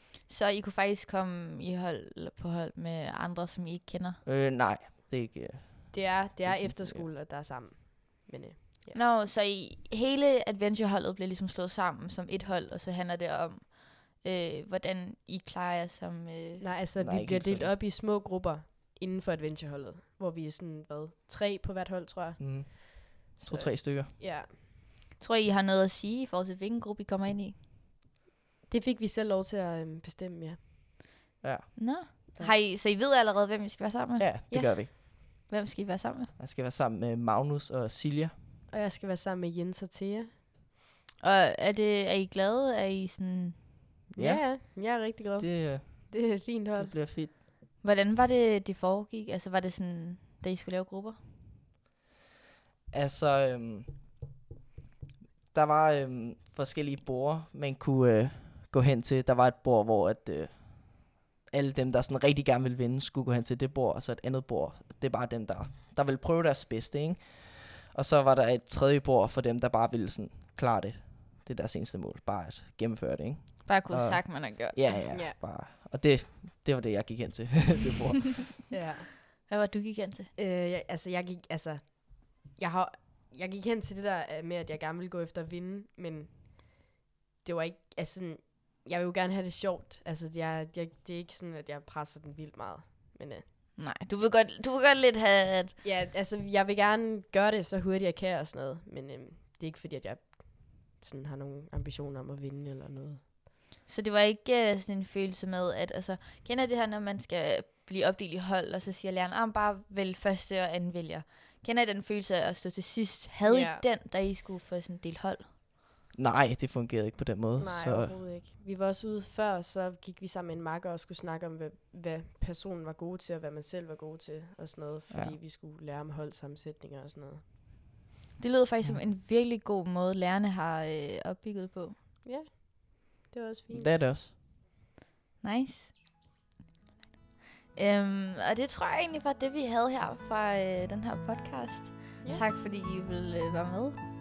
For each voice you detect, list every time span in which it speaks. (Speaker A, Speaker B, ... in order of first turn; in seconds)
Speaker A: 0.3-4.2, 8.9-16.7, 25.2-27.6, 31.8-36.3, 41.2-43.7, 47.8-51.2, 73.7-75.1, 79.4-80.3, 93.8-95.8, 103.9-115.5, 128.4-132.0, 135.4-136.3, 137.7-144.0
Speaker B: 4.2-7.1, 17.0-17.7, 22.4-24.1, 31.4-31.8, 34.2-34.9, 36.4-38.3, 44.2-47.3, 52.9-54.0, 55.5-78.5, 116.2-118.2, 125.1-125.4, 133.7-134.3
Speaker C: 5.9-9.0, 16.6-24.6, 28.7-30.6, 38.7-40.3, 44.2-46.9, 75.1-75.4, 78.7-79.1, 80.3-93.5, 95.8-103.2, 113.5-113.8, 117.6-127.4, 132.2-133.9